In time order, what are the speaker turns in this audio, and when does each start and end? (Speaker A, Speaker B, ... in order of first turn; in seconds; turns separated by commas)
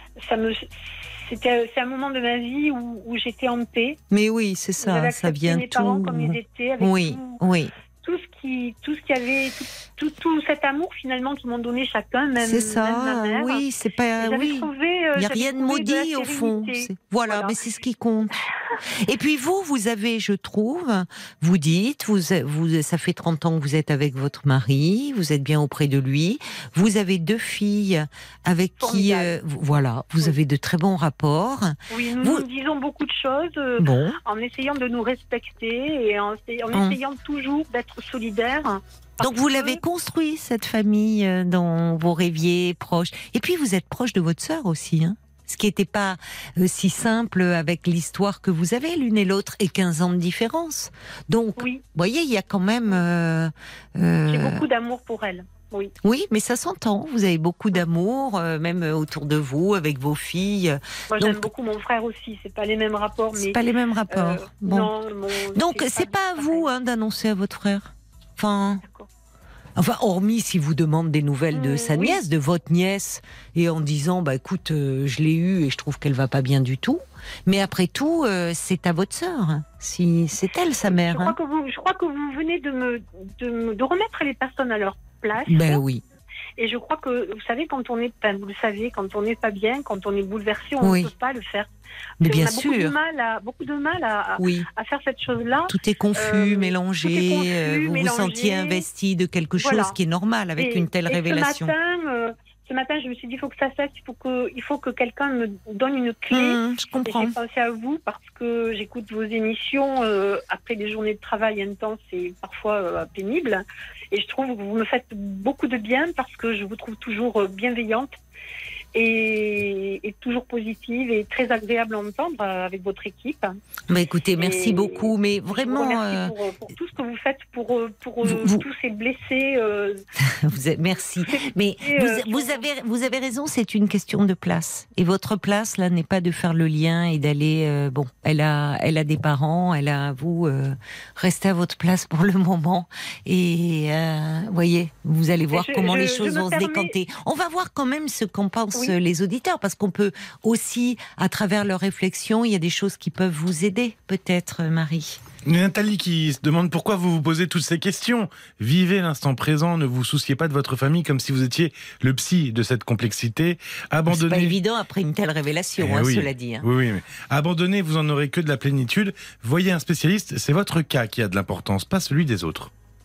Speaker A: 0.2-4.0, Speaker B: 4.1-7.7, Speaker A: 4.8-7.4, Speaker A: 8.0-13.6, Speaker B: 12.4-32.5, Speaker A: 14.2-17.8, Speaker A: 28.8-29.3, Speaker A: 31.9-39.8, Speaker B: 33.8-34.2, Speaker B: 36.7-37.0, Speaker B: 39.2-54.6, Speaker A: 51.6-51.8, Speaker A: 54.3-55.9, Speaker B: 56.0-61.5, Speaker A: 61.1-63.6, Speaker B: 63.3-64.9, Speaker A: 64.1-66.7, Speaker B: 65.5-68.8, Speaker A: 68.8-69.1, Speaker B: 69.8-81.4, Speaker A: 71.5-72.2, Speaker A: 80.9-85.8, Speaker B: 85.5-86.0, Speaker A: 86.6-91.7, Speaker B: 90.8-91.1, Speaker B: 92.2-93.0, Speaker A: 92.2-98.8, Speaker B: 94.4-94.7, Speaker B: 95.7-101.7, Speaker A: 99.6-100.0, Speaker A: 100.6-118.2, Speaker B: 106.3-107.3, Speaker A: 119.0-123.5, Speaker B: 123.9-126.3, Speaker A: 124.4-130.0, Speaker B: 128.2-128.7, Speaker B: 130.2-155.2, Speaker A: 131.3-132.6, Speaker A: 145.5-146.9, Speaker C: 155.4-164.6, Speaker B: 164.1-166.6, Speaker C: 165.8-172.7